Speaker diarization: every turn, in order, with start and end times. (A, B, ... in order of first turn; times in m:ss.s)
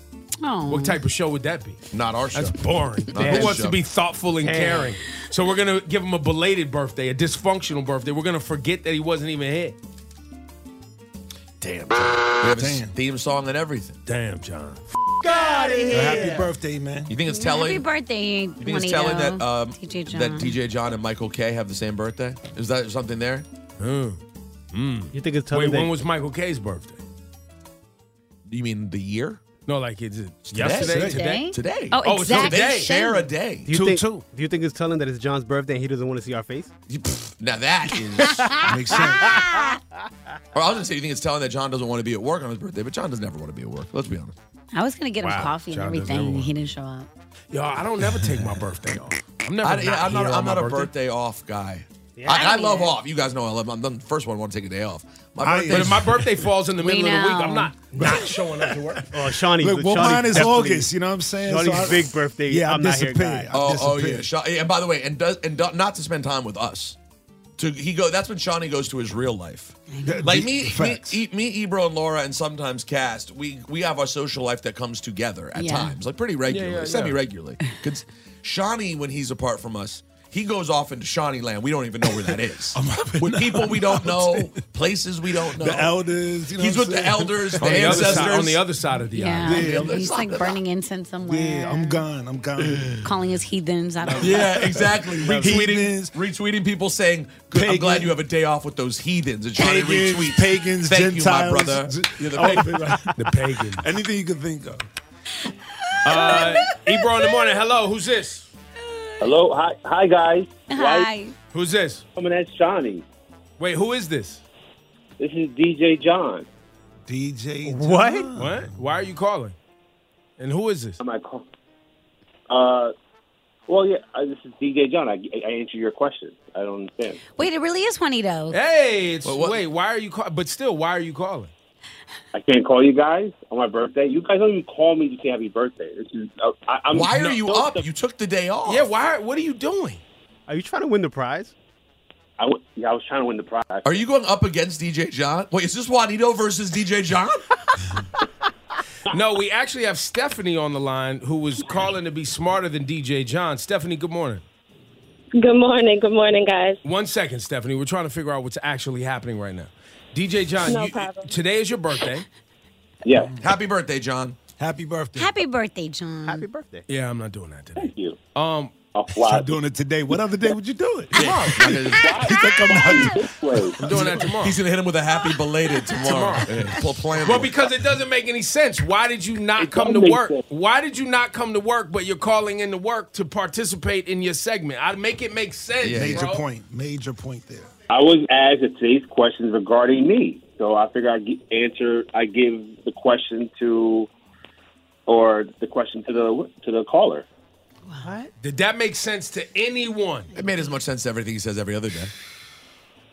0:00.4-0:01.0 A
0:00.7-0:09.8 B
0:01.9-0:02.6 C
0:03.1-0:03.8 C
0:03.2-0:03.6 D
0:04.4-0:05.0 D
0:11.6-0:12.2 B
0:12.4-0:14.0 C
0:12.5-0:12.9 E
0:14.1-0:14.8 B
0:15.4-0:16.4 D
0:15.9-0:17.2 E
0:17.1-0:17.9 C
0:17.2-0:20.6 A
0:18.6-0:23.5 C
0:23.8-0:24.2 B
0:24.7-0:27.0 B
0:25.1-0:25.9 D
0:28.5-0:29.4 C
0:29.7-0:31.5 B
0:30.5-0:33.7 C
0:30.8-0:31.2 E
0:31.0-0:33.3 A
0:32.0-0:33.2 B
0:33.7-0:36.7 D
0:33.7-0:34.2 E
0:36.9-0:38.4 C
0:38.2-0:39.8 A
0:38.6-0:39.4 E
0:40.5-0:44.3 C
0:44.7-0:47.1 A
0:45.2-0:46.5 B
0:47.5-0:50.9 B
0:49.6-0:56.2 C
0:52.2-0:52.4 D
0:52.3-0:52.9 A
0:55.4-0:56.3 E
0:55.7-0:59.1 B
0:56.8-0:57.8 A
0:58.0-0:58.4 E
0:59.1-1:03.5 D
0:59.5-1:04.3 E
1:03.5-1:07.0 C
1:07.6-1:26.0 C
1:09.9-1:10.4 A
1:10.0-1:11.2 E
1:15.6-1:16.0 A
1:16.5-1:17.2 B
1:22.7-1:24.6 E
1:25.4-1:28.4 E
1:26.5-1:28.6 C
1:27.6-1:29.7 B
1:29.1-1:32.0 A
1:29.4-1:30.2 E
1:29.5-1:30.6 C
1:31.2-1:33.2 E
1:33.0-1:34.7 A
1:34.0-1:36.2 E
1:34.1-1:42.8 C
1:35.2-1:35.6 B
1:37.5-1:38.2 E
1:39.6-1:44.8 E
1:42.4-1:43.9 B
1:46.0-1:48.5 B
1:46.1-1:47.3 A
1:48.9-1:49.3 A
1:49.2-1:51.1 F
1:50.7-1:51.3 A
1:51.5-1:52.0 B
1:52.2-1:53.0 F
1:53.6-1:54.4 B
1:55.2-1:56.5 F
1:57.1-1:58.7 E
1:57.6-1:58.3 D
1:58.4-1:59.6 B
2:00.4-2:01.0 B
2:01.0-2:01.4 F
2:02.5-2:02.9 F
2:03.7-2:07.2 F
2:07.4-2:08.6 A
2:08.5-2:11.5 B
2:09.2-2:09.6 C
2:12.3-2:17.9 F
2:16.9-2:18.9 C
2:17.1-2:17.4 B
2:18.6-2:20.0 B
2:20.5-2:21.6 D
2:22.4-2:24.0 F
2:23.8-2:27.4 C
2:29.1-2:34.4 B
2:35.4-2:36.8 G
2:36.8-2:42.3 B
2:40.6-2:41.3 G
2:43.0-2:43.4 F
2:43.4-2:44.4 C
2:44.6-2:45.4 E
2:45.2-2:46.5 A
2:46.2-2:46.9 D
2:46.9-2:48.7 B
2:47.8-2:48.2 F
2:48.9-2:49.6 F
2:49.1-2:54.3 E
2:51.2-2:52.4 C
2:51.9-2:53.8 F
2:53.8-2:54.6 B
2:53.8-2:57.6 C
2:56.0-2:56.6 B
2:57.2-3:06.4 B
2:59.6-3:00.4 F
3:05.8-3:06.3 C
3:05.9-3:07.7 E
3:07.9-3:14.1 F
3:15.1-3:17.3 F
3:18.0-3:18.3 D
3:18.4-3:20.3 B
3:20.3-3:22.1 C